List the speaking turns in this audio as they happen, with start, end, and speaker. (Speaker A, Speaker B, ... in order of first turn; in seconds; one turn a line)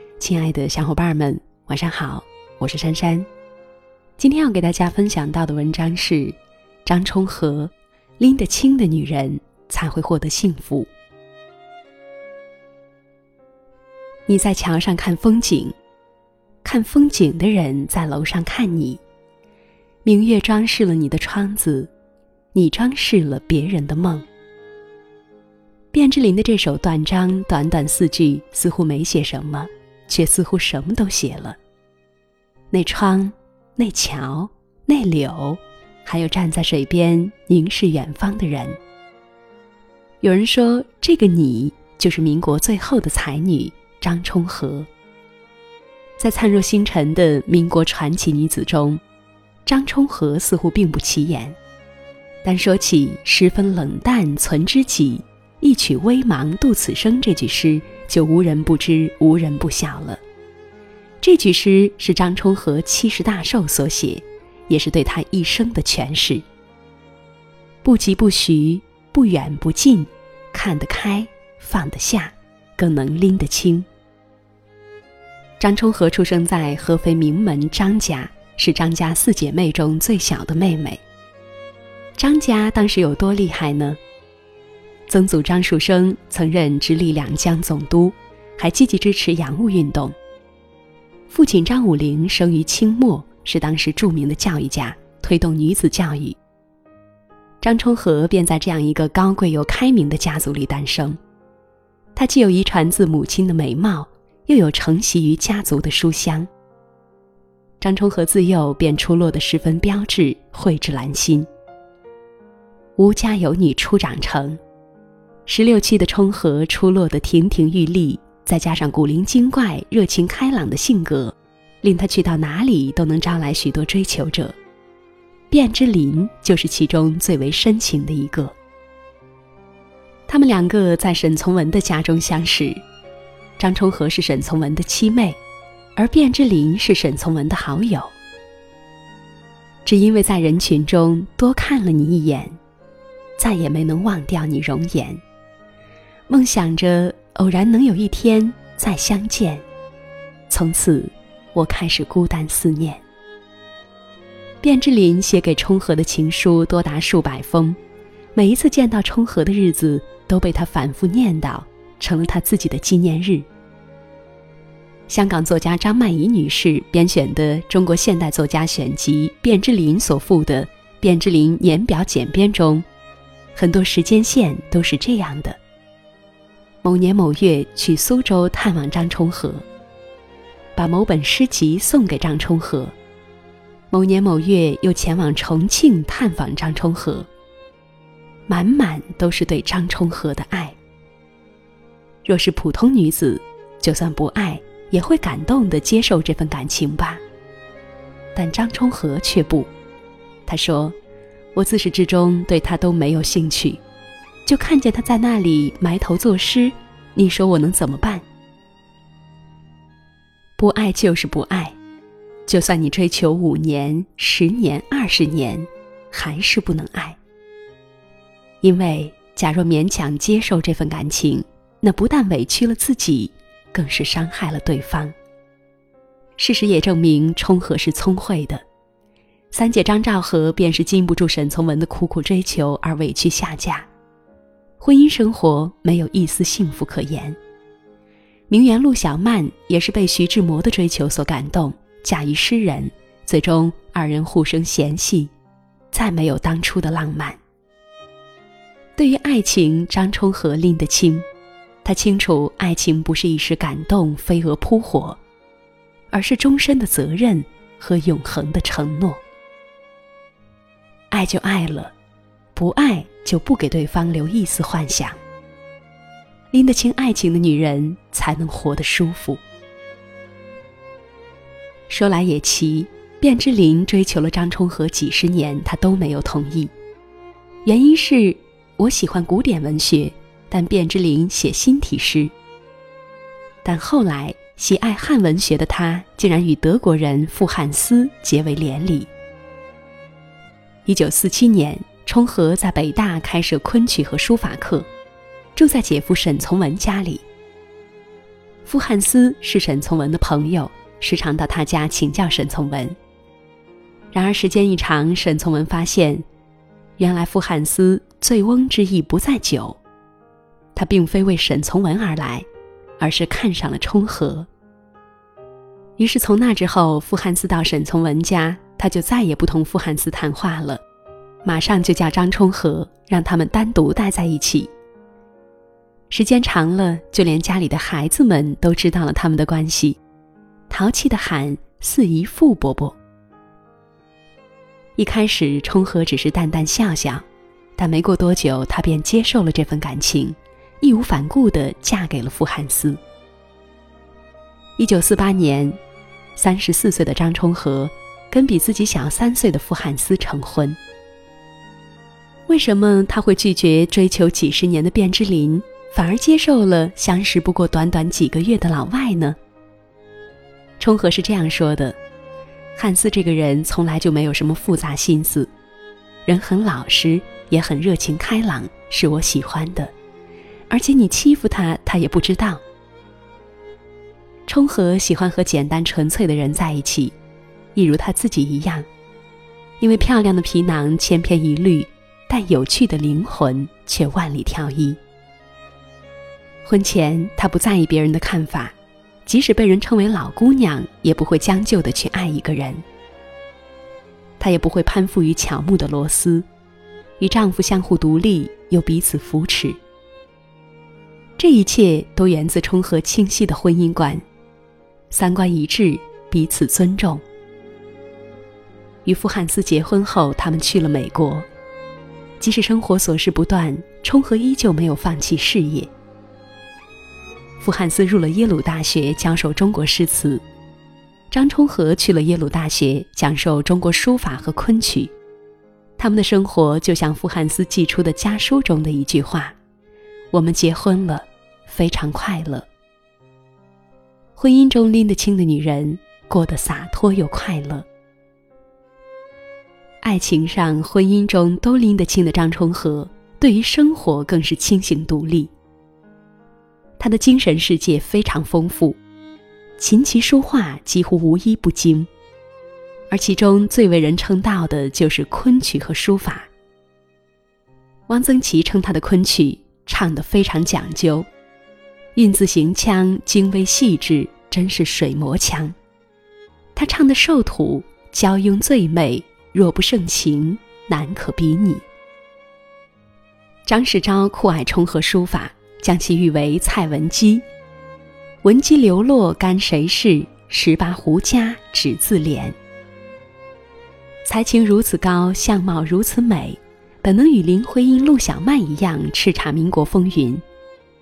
Speaker A: 0.2-3.3
Speaker A: 4.2-10.9
Speaker A: 14.3-15.8
Speaker A: 16.6-19.0
Speaker A: 20.1-21.9
Speaker A: 22.5-24.3
Speaker A: 25.9-31.6
Speaker A: 32.7-38.8
Speaker A: 40.2-44.9
Speaker A: 46.2-49.0
Speaker A: 49.7-51.6
Speaker A: 52.4-60.2
Speaker A: 61.2-66.5
Speaker A: 67.8-73.9
Speaker A: 75.6-81.0
Speaker A: 82.2-84.0
Speaker A: 85.1-90.2
Speaker A: 91.3-96.4
Speaker A: 97.6-101.2
Speaker A: 102.2-106.5
Speaker A: 107.8-111.5
Speaker A: 113.0-114.6
Speaker A: 115.5-124.6
Speaker A: 125.5-128.6
Speaker A: 130.3-132.8
Speaker A: 133.6-135.4
Speaker A: 136.0-138.1
Speaker A: 139.8-142.6
Speaker A: 143.4-145.2
Speaker A: 146.3-149.7
Speaker A: 150.5-153.0
Speaker A: 154.6-157.8
Speaker A: 158.3-163.5
Speaker A: 165.1-172.9
Speaker A: 173.6-175.6
Speaker A: 176.8-179.7
Speaker A: 180.8-182.9
Speaker A: 183.9-187.3
Speaker A: 188.5-190.8
Speaker A: 192.2-197.2
Speaker A: 198.3-199.7
Speaker A: 200.5-201.0
Speaker A: 201.5-203.8
Speaker A: 204.5-208.2
Speaker A: 210.6-211.8
Speaker A: 212.5-217.2
Speaker A: 218.6-225.1
Speaker A: 226.4-228.6
Speaker A: 229.5-233.9
Speaker A: 234.8-237.4
Speaker A: 238.5-245.3
Speaker A: 245.9-247.4
Speaker A: 249.0-251.3
Speaker A: 251.8-255.2
Speaker A: 256.1-259.2
Speaker A: 261.1-261.9
Speaker A: 262.6-265.2
Speaker A: 266.5-269.4
Speaker A: 271.9-276.7
Speaker A: 277.6-282.3
Speaker A: 283.6-289.1
Speaker A: 290.9-294.9
Speaker A: 295.6-297.2
Speaker A: 298.7-303.0
Speaker A: 304.1-306.2
Speaker A: 307.0-309.8
Speaker A: 310.8-312.5
Speaker A: 313.0-314.5
Speaker A: 316.0-320.8
Speaker A: 321.4-324.7
Speaker A: 326.1-330.0
Speaker A: 330.7-333.0
Speaker A: 335.0-337.3
Speaker A: 337.8-343.0
Speaker A: 344.8-345.8
Speaker A: 346.4-350.8
Speaker A: 352.5-359.4
Speaker A: 360.8-362.0
Speaker A: 362.8-365.5
Speaker A: 366.3-369.9
Speaker A: 370.7-372.6
Speaker A: 374.5-377.2
Speaker A: 377.8-378.9
Speaker A: 379.8-385.0
Speaker A: 386.6-388.8
Speaker A: 389.3-392.8
Speaker A: 394.4-396.5
Speaker A: 397.2-399.8
Speaker A: 401.4-404.2
Speaker A: 405.1-407.2
Speaker A: 409.1-411.5
Speaker A: 412.4-415.9
Speaker A: 417.6-420.4
Speaker A: 421.3-425.1
Speaker A: 426.0-429.6
Speaker A: 430.3-432.7
Speaker A: 434.4-437.9
Speaker A: 440.0-445.5
Speaker A: 447.0-449.0
Speaker A: 449.8-452.1
Speaker A: 453.1-456.5
Speaker A: 458.1-461.3
Speaker A: 462.1-465.8
Speaker A: 466.8-471.9
Speaker A: 473.7-477.4
Speaker A: 478.4-482.6
Speaker A: 484.2-490.4